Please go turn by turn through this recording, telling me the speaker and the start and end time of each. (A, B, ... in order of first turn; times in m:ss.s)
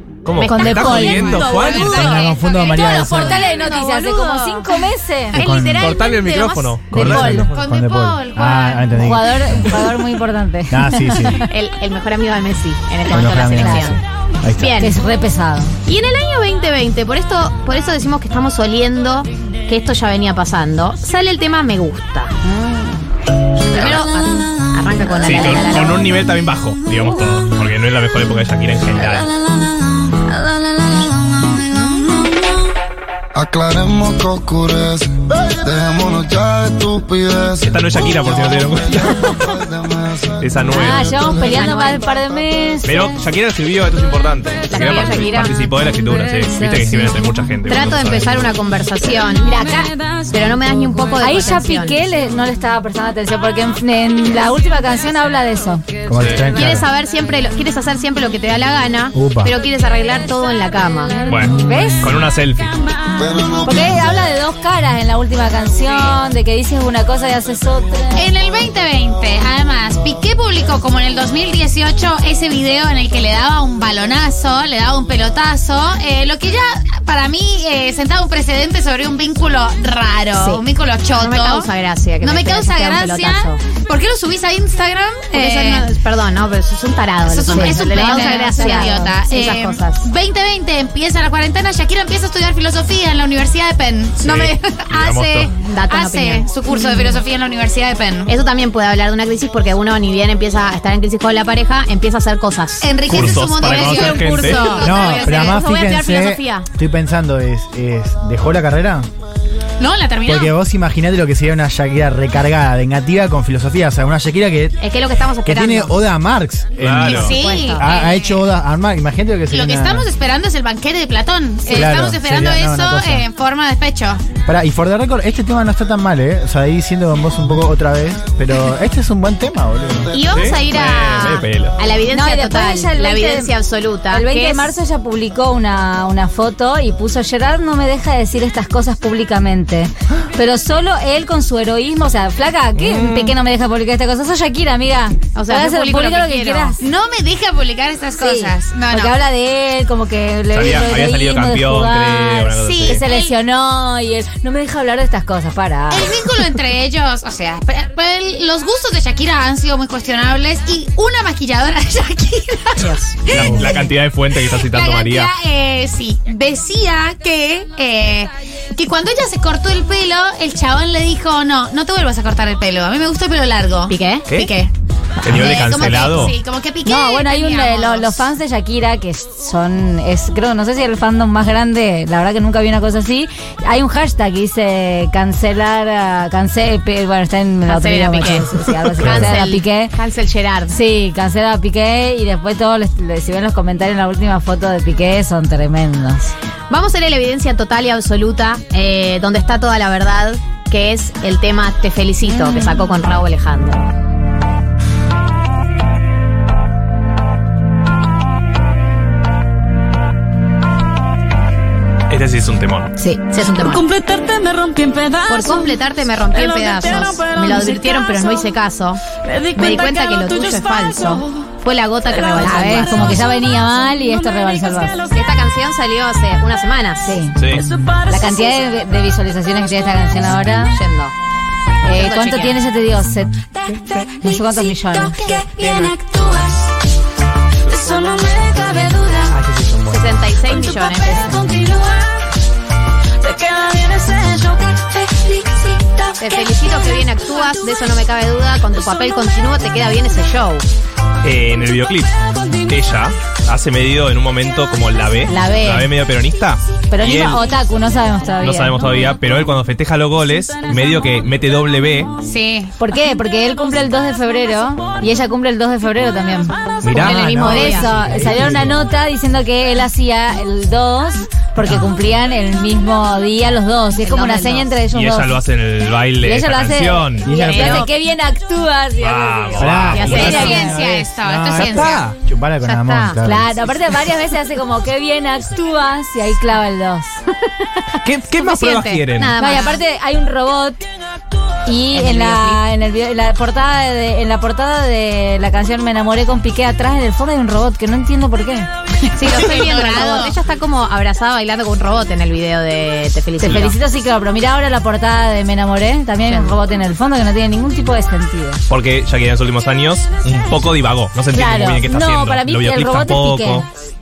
0:00.2-0:02.2 A
0:00.4-0:04.8 B
0:00.4-0:01.6 C
0:01.4-0:03.1 D
0:01.7-0:03.4 E
0:02.8-0:05.4 C
0:05.3-0:07.5 B
0:05.4-0:05.9 E
0:05.8-0:07.5 A
0:06.9-0:09.8 E
0:07.0-0:07.4 C
0:07.5-0:09.1 D
0:08.9-0:11.4 C
0:10.7-0:11.4 E
0:11.5-0:14.0 B
0:13.1-0:14.8 E
0:13.1-0:14.0 C
0:14.6-0:15.0 B
0:14.8-0:15.7 C
0:15.8-0:22.4 B
0:22.4-0:23.0 C
0:23.7-0:26.1 B
0:23.8-0:24.0 A
0:25.2-0:29.3 A
0:30.9-0:32.1 F
0:33.3-0:40.2 G
0:37.6-0:39.4 A
0:40.4-0:41.1 A
0:40.7-0:43.2 C
0:41.1-0:41.8 G
0:41.1-0:42.1 B
0:42.8-0:48.5 A
0:44.7-0:45.7 B
0:47.7-0:49.5 B
0:49.4-0:49.9 C
0:50.3-0:52.0 B
0:51.2-0:56.0 C
0:56.1-0:56.9 E
0:56.2-0:56.5 A
0:56.5-1:01.2 B
0:59.1-0:59.5 E
1:01.3-1:02.7 A
1:01.3-1:02.1 C
1:03.2-1:03.9 G
1:03.6-1:08.2 C
1:08.1-1:21.7 D
1:21.2-1:23.6 B
1:22.2-1:25.9 D
1:25.3-1:30.1 B
1:27.2-1:38.3 D
1:27.5-1:29.2 C
1:34.2-1:35.5 A
1:35.6-1:37.2 B
1:38.3-1:43.0 B
1:42.8-1:45.6 D
1:43.1-1:44.8 A
1:43.6-1:46.6 B
1:44.7-1:49.1 E
1:49.8-1:50.5 D
1:50.2-1:54.8 E
1:54.8-1:56.0 B
1:55.4-2:00.1 E
1:56.8-1:57.4 A
1:57.1-1:58.5 D
1:57.3-1:57.8 B
1:59.5-2:04.2 D
2:01.7-2:03.2 E
2:04.4-2:10.2 E
2:10.1-2:14.7 B
2:10.3-2:11.8 A
2:12.1-2:13.5 C
2:14.1-2:26.8 C
2:22.9-2:23.3 B
2:25.3-2:26.8 B
2:26.8-2:29.1 D
2:28.2-2:36.1 C
2:30.5-2:33.0 A
2:32.6-2:33.3 D
2:35.9-2:43.8 D
2:42.8-2:43.2 B
2:43.2-2:45.3 A
2:43.3-2:43.6 E
2:44.5-2:54.7 D
2:53.9-2:54.3 B
2:55.2-2:56.4 A
2:55.2-2:58.3 D
2:56.8-3:09.9 C
3:07.7-3:10.8 B
3:09.0-3:09.3 A
3:10.7-3:16.3 C
3:16.7-3:23.9 B
3:32.1-3:32.9 A
3:33.0-3:33.2 C
3:33.3-3:33.9 B
3:33.6-3:35.8 F
3:35.3-3:39.0 B
3:36.4-3:38.2 F
3:39.2-3:41.2 F
3:39.5-3:43.2 B
3:42.4-3:45.0 C
3:43.8-3:44.9 F
3:45.1-3:47.2 B
3:47.0-3:47.4 C
3:47.4-3:47.7 A
3:47.7-3:48.1 F
3:48.0-3:50.8 C
3:50.6-3:51.1 B
3:51.8-3:53.3 C
3:51.9-3:52.6 B
3:54.2-3:55.3 C
3:55.2-3:56.7 F
3:55.5-3:55.9 E
3:57.7-3:59.3 F
3:59.3-3:59.9 E
3:59.9-4:01.4 B
4:00.9-4:02.1 F
4:03.2-4:06.3 F
4:06.2-4:10.6 B
4:11.2-4:12.1 A
4:12.7-4:17.4 A
4:15.3-4:15.9 C
4:16.9-4:18.8 C
4:18.4-4:22.1 A
4:22.2-4:22.7 D
4:22.8-4:26.5 C
4:26.8-4:27.2 A
4:26.9-4:28.8 E
4:27.0-4:27.9 B
4:27.3-4:35.3 C
4:34.0-4:34.8 B
4:34.9-4:37.3 A
4:36.2-4:40.7 C
4:37.2-4:37.8 E
4:37.3-4:37.9 B
4:39.0-4:40.7 A
4:39.6-4:43.6 E
4:39.9-4:40.8 B
4:40.0-4:42.0 D
4:41.6-4:42.2 A
4:42.6-4:43.2 B
4:43.2-4:47.1 C
4:47.6-4:49.8 B
4:48.0-4:49.3 A
4:49.4-4:50.8 C
4:51.6-4:58.7 C
4:51.9-4:52.6 B
4:59.1-5:03.7 B
4:59.2-5:00.4 D
5:03.4-5:08.6 C
5:06.3-5:06.6 B
5:08.7-5:13.6 A
5:11.3-5:13.7 C